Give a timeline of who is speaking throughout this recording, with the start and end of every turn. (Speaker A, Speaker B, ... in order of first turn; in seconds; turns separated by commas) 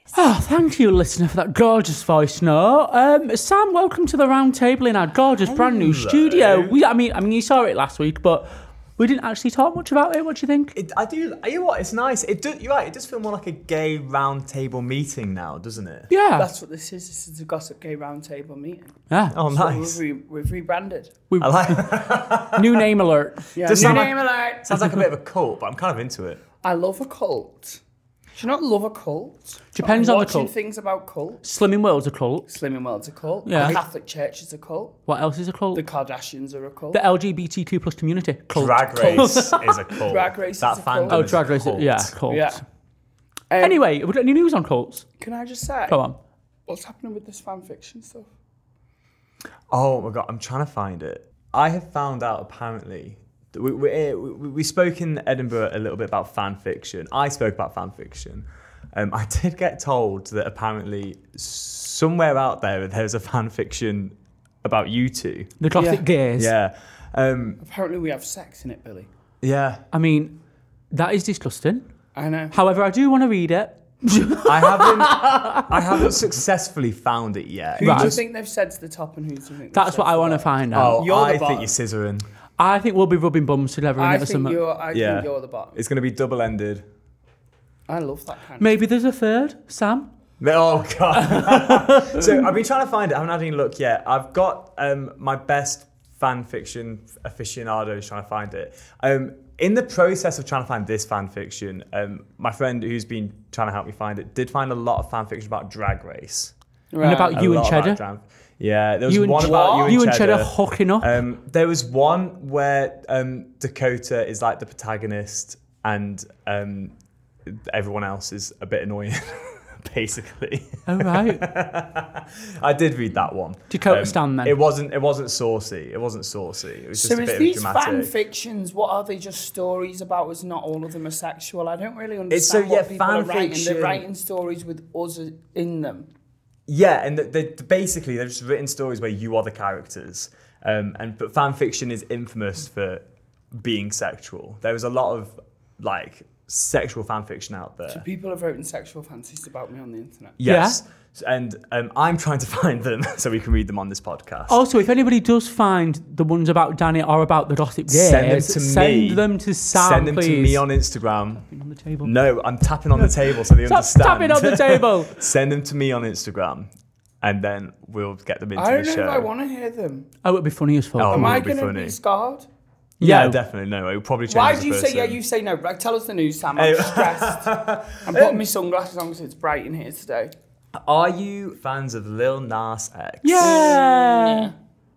Speaker A: 0.1-10.7, Speaker B: 5.4-6.8, Speaker B: 10.7-16.2, Speaker A: 16.1-16.5, Speaker C: 16.3-21.2, Speaker A: 19.1-19.4, Speaker B: 19.3-20.0, Speaker A: 21.3-24.1, Speaker B: 21.4-22.9, Speaker C: 23.5-24.7, Speaker B: 23.6-26.5, Speaker A: 24.8-25.0, Speaker C: 26.5-27.8, Speaker C: 28.4-31.4, Speaker A: 29.7-30.5, Speaker A: 31.4-32.5, Speaker C: 32.5-35.0, Speaker A: 33.5-33.8, Speaker B: 33.5-33.8, Speaker A: 35.1-35.8, Speaker C: 35.7-37.0, Speaker A: 36.9-40.1, Speaker B: 38.5-42.2, Speaker C: 39.0-39.3, Speaker C: 40.1-41.4, Speaker A: 41.0-42.6, Speaker C: 42.3-42.6, Speaker C: 43.5-43.8, Speaker A: 43.6-45.0, Speaker C: 45.2-46.0, Speaker A: 45.9-46.2, Speaker C: 46.7-48.3, Speaker B: 49.7-65.5, Speaker A: 65.6-66.5, Speaker C: 65.8-66.0, Speaker B: 66.3-67.6, Speaker C: 67.6-69.1, Speaker B: 69.4-69.8, Speaker A: 69.9-70.4, Speaker A: 70.9-71.9, Speaker C: 72.1-72.5, Speaker A: 72.5-76.2, Speaker B: 74.4-78.2, Speaker A: 77.8-78.2, Speaker C: 77.8-81.7, Speaker A: 79.7-81.0, Speaker B: 80.7-82.2, Speaker A: 82.6-84.6, Speaker C: 84.0-85.8, Speaker B: 84.9-86.8, Speaker C: 87.9-88.7, Speaker A: 88.6-90.1, Speaker B: 90.4-106.5, Speaker A: 91.2-92.4, Speaker C: 106.9-107.4, Speaker A: 107.0-108.0, Speaker B: 107.3-116.9, Speaker A: 109.1-111.2, Speaker C: 109.4-110.0, Speaker B: 117.5-128.1, Speaker A: 120.9-121.4, Speaker A: 123.7-124.6, Speaker C: 127.0-136.1, Speaker B: 132.3-134.0, Speaker B: 136.7-148.0, Speaker C: 147.9-150.3, Speaker B: 150.4-154.6, Speaker A: 150.4-150.8, Speaker A: 154.5-160.7, Speaker B: 157.9-166.7, Speaker A: 161.4-162.1, Speaker A: 163.0-165.3, Speaker B: 167.2-169.3, Speaker C: 168.6-170.1, Speaker A: 170.2-171.4, Speaker B: 170.9-172.0, Speaker C: 171.1-172.5, Speaker A: 173.0-173.4, Speaker B: 173.0-175.2, Speaker C: 174.3-177.4, Speaker B: 176.6-178.4, Speaker C: 178.1-180.3, Speaker B: 180.7-183.6, Speaker A: 183.2-184.5, Speaker C: 183.4-184.5